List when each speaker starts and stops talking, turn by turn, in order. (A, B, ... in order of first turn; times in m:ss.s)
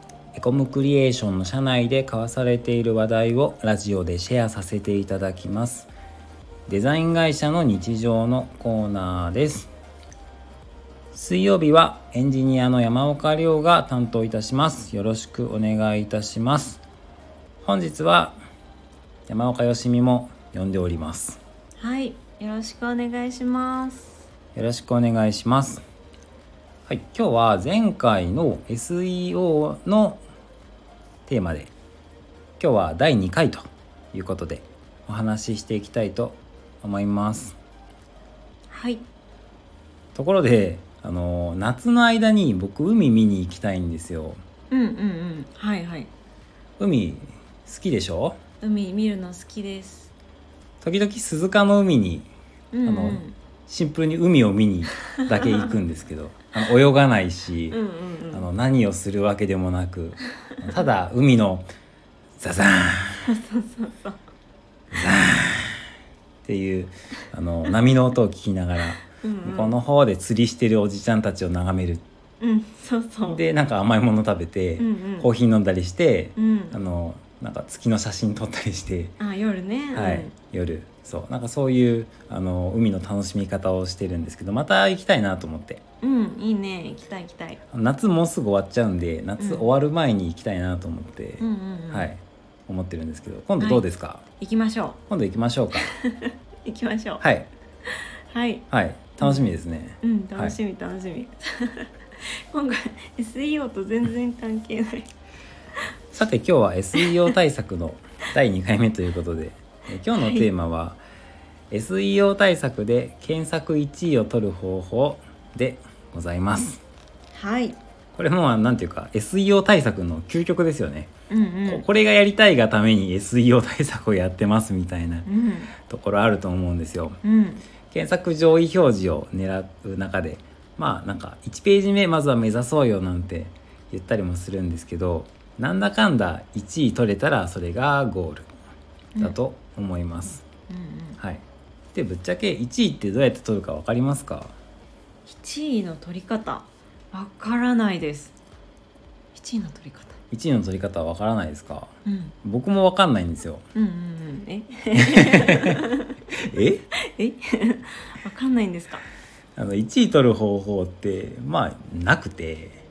0:00.3-0:05.9 A
0:06.7-0:09.7 A
0:11.1-0:16.8 A
0:17.6-0:18.4 A
0:19.3-0:21.4 A
0:21.8-0:24.2 B
0:24.5-0:25.8 A
0:26.9-0:30.2 A
0:31.3-0:31.7 A
0:32.6-0:37.6 A
0:38.7-0:39.0 B
0:40.1-0:44.4 A
0:44.7-0:46.1 B
0:46.8-0:48.4 A
0:48.6-0:50.1 B
0:50.8-0:52.3 A
0:52.7-0:53.3 B
0:52.8-0:57.8 A
0:57.7-0:58.5 B
0:58.3-1:01.6 A
1:02.4-1:03.3 A
1:03.2-1:04.2 B
1:04.9-1:05.8 A
1:06.4-1:12.0 A
1:09.0-1:09.7 B
1:12.4-1:13.4 B
1:13.2-1:19.2 A
1:14.8-1:15.3 B
1:16.4-1:16.8 B
1:19.2-1:20.3 B
1:19.9-1:25.8 A
1:26.0-1:27.6 B
1:27.7-1:34.2 A
1:29.4-1:29.7 B
1:31.4-1:32.1 B
1:33.6-1:33.8 B
1:34.4-1:35.0 B
1:35.1-1:35.9 A
1:35.9-1:37.2 B
1:37.2-1:37.5 A
1:37.9-1:38.6 B
1:38.7-1:40.6 A
1:39.2-1:45.1 B
1:46.1-1:51.0 A
1:47.0-1:47.3 B
1:50.1-1:50.5 B
1:51.7-1:56.8 A
1:57.3-1:57.8 B
1:58.1-2:01.1 A
2:01.3-2:01.8 B
2:01.6-2:07.2 A
2:05.2-2:05.7 B
2:07.2-2:07.6 B
2:07.9-2:18.5 A
2:19.2-2:20.4 A
2:20.7-2:21.2 B
2:21.2-2:21.4 A
2:21.9-2:24.6 A
2:25.2-2:28.3 B
2:29.3-2:30.2 B
2:30.3-2:33.6 A
2:32.0-2:32.3 B
2:33.7-2:36.2 B
2:34.9-2:36.8 A
2:36.9-2:39.0 B
2:39.6-2:42.8 A